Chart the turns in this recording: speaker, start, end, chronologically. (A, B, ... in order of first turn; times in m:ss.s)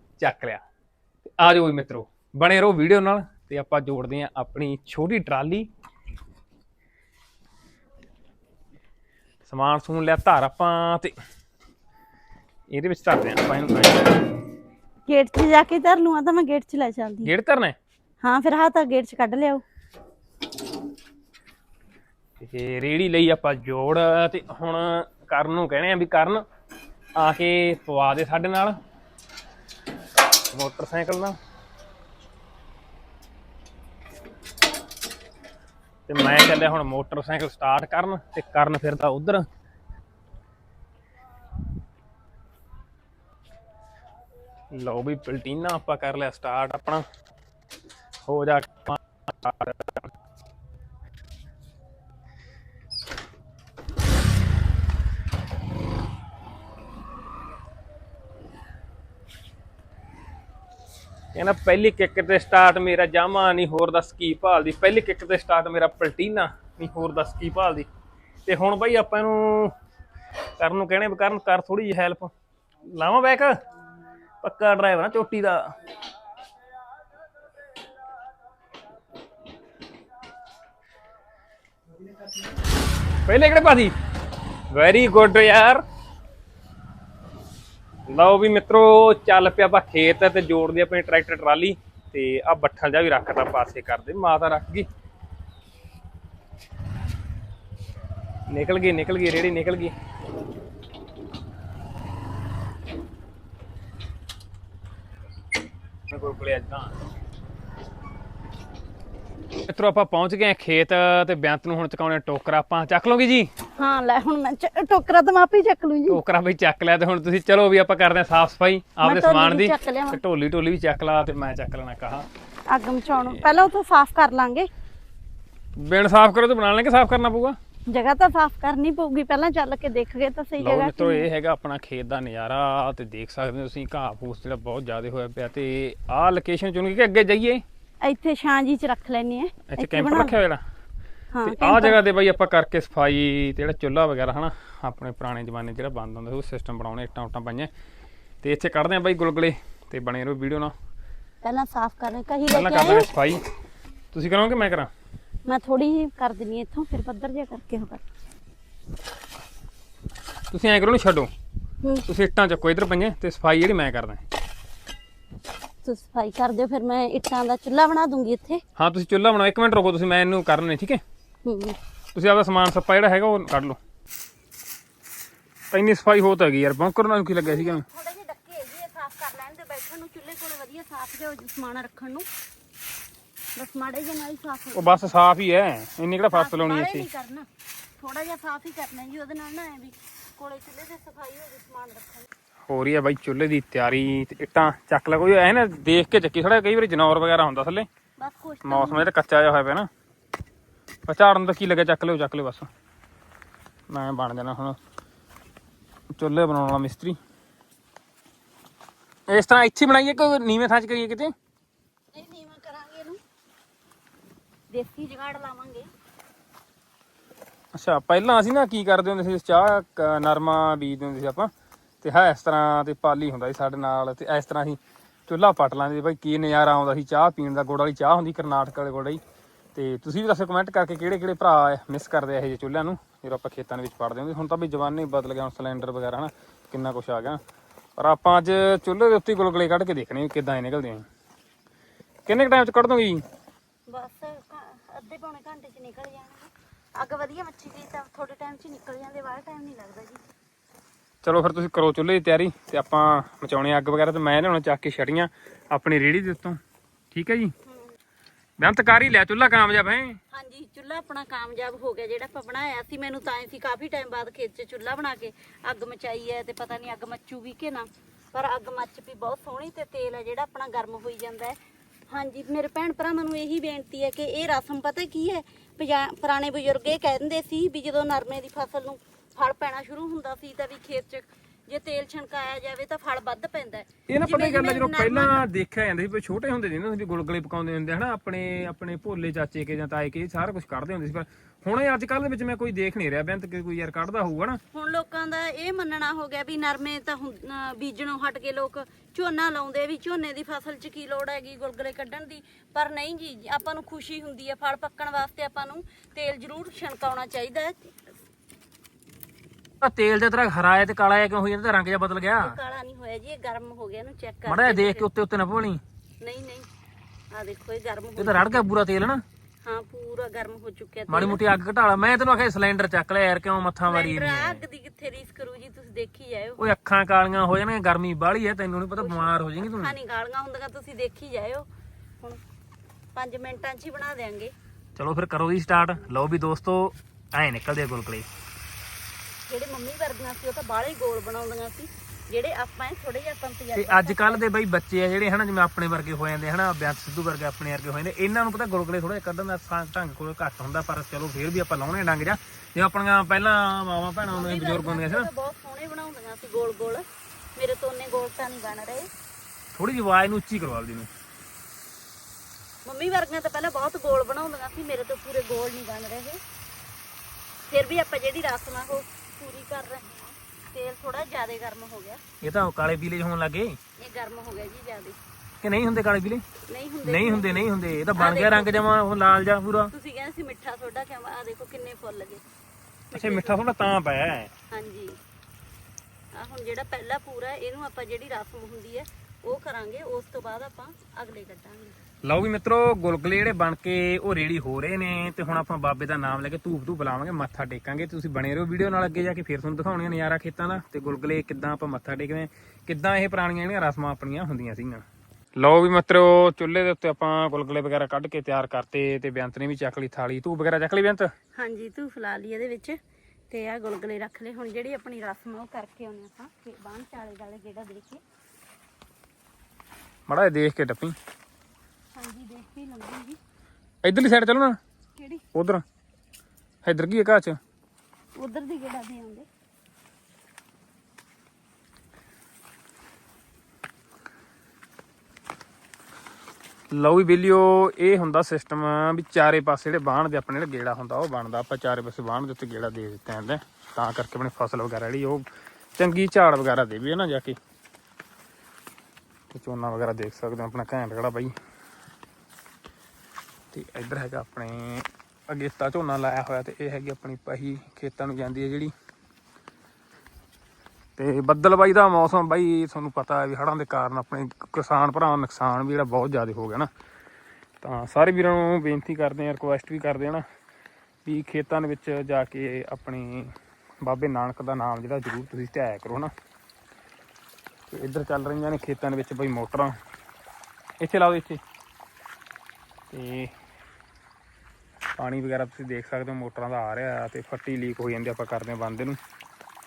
0:00.2-0:00.6 A
0:01.4-0:05.7 A
0:09.4-0:11.1 A
0:12.7-0:14.2 A
0:15.1-0:17.3 B
0:17.2-0:17.8 A
0:18.2-0:19.6 B
0:22.4-0:26.4 A
0:27.2-0:28.8 A
0:30.5-0:31.4 A
0:36.1-0:39.5 A
0:44.7-0:47.0 A
0:48.3-0:50.1 A
1:01.3-1:07.9 A
1:08.5-1:09.7 A
1:10.6-1:12.3 A
1:12.9-1:13.6 A
1:14.4-1:15.8 A
1:23.3-1:23.9 A
1:24.7-1:25.8 A
1:28.1-1:34.9 A
1:38.5-1:39.9 A
1:46.1-1:46.9 A
1:49.6-1:53.5 A
1:53.8-1:56.2 B
1:56.1-2:02.3 A
1:59.0-2:00.2 B
2:02.7-2:04.7 B
2:05.8-2:07.6 A
2:07.9-2:11.3 B
2:10.6-2:17.6 A
2:18.0-2:20.4 B
2:19.7-2:20.6 A
2:21.3-2:22.0 B
2:21.4-2:27.7 A
2:28.4-2:30.7 A
2:31.4-2:33.1 B
2:32.5-2:33.4 A
2:34.1-2:34.9 A
2:35.5-2:38.0 B
2:40.5-2:41.3 A
2:41.8-2:42.1 B
2:42.1-2:44.2 A
2:45.8-2:48.6 B
2:48.8-2:51.0 A
2:51.4-2:51.8 B
2:52.2-2:53.8 A
2:55.7-2:57.8 A
2:57.4-3:02.3 B
3:03.6-3:05.0 B
3:04.8-3:07.1 A
3:06.3-3:07.5 B
3:08.0-3:12.3 B
3:12.7-3:17.9 A
3:18.2-3:19.1 B
3:18.6-3:19.9 A
3:21.1-3:22.7 A
3:23.9-3:24.8 A
3:26.1-3:27.2 A
3:29.3-3:31.3 A
3:32.1-3:33.2 B
3:34.7-3:35.9 B
3:37.7-3:41.5 A
3:42.0-3:49.2 A
3:49.8-3:57.4 A
3:58.0-4:01.1 A
4:02.3-4:03.2 A
4:03.9-4:10.2 B
4:11.2-4:16.6 A
4:17.1-4:17.5 A
4:18.6-4:20.2 A
4:20.3-4:31.6 B
4:32.1-4:45.5 B
4:44.1-4:54.6 A
4:54.7-5:07.9 B
5:09.8-5:12.6 A
5:12.4-5:15.1 B
5:14.5-5:15.8 A
5:16.2-5:16.7 B
5:17.3-5:18.7 B
5:18.2-5:19.2 A
5:19.6-5:21.4 B
5:21.1-5:24.6 A
5:23.8-5:26.6 B
5:26.6-5:30.0 A
5:29.0-5:31.7 B
5:33.2-5:34.5 B
5:35.0-5:38.3 A
5:39.5-5:44.4 B
5:43.8-5:55.3 A
5:54.3-5:57.0 B
5:57.6-5:59.1 B
5:59.8-6:01.1 A
6:02.9-6:06.4 B
6:07.7-6:12.2 B
6:12.4-6:13.8 A
6:14.0-6:15.2 B
6:15.6-6:16.4 A
6:16.7-6:18.9 B
6:17.0-6:19.9 A
6:19.9-6:22.4 B
6:23.1-6:23.7 B
6:23.1-6:24.5 A
6:24.7-6:25.2 B
6:26.3-6:32.0 B
6:32.2-6:45.0 A
6:45.6-6:51.3 A
6:51.6-6:53.0 B
6:53.5-6:58.2 B
7:00.3-7:01.2 A
7:02.2-7:03.4 B
7:04.0-7:04.8 A
7:05.2-7:05.4 B
7:05.5-7:05.8 A
7:06.8-7:07.6 A
7:08.4-7:09.5 B
7:16.9-7:25.5 A
7:26.0-7:27.6 A
7:29.5-7:31.5 A
7:33.7-7:38.9 A
7:41.2-7:46.9 A
7:47.8-7:50.4 A
7:51.2-7:56.3 A
7:57.9-7:59.9 A
8:01.0-8:01.6 A
8:03.1-8:03.5 A
8:05.2-8:09.2 A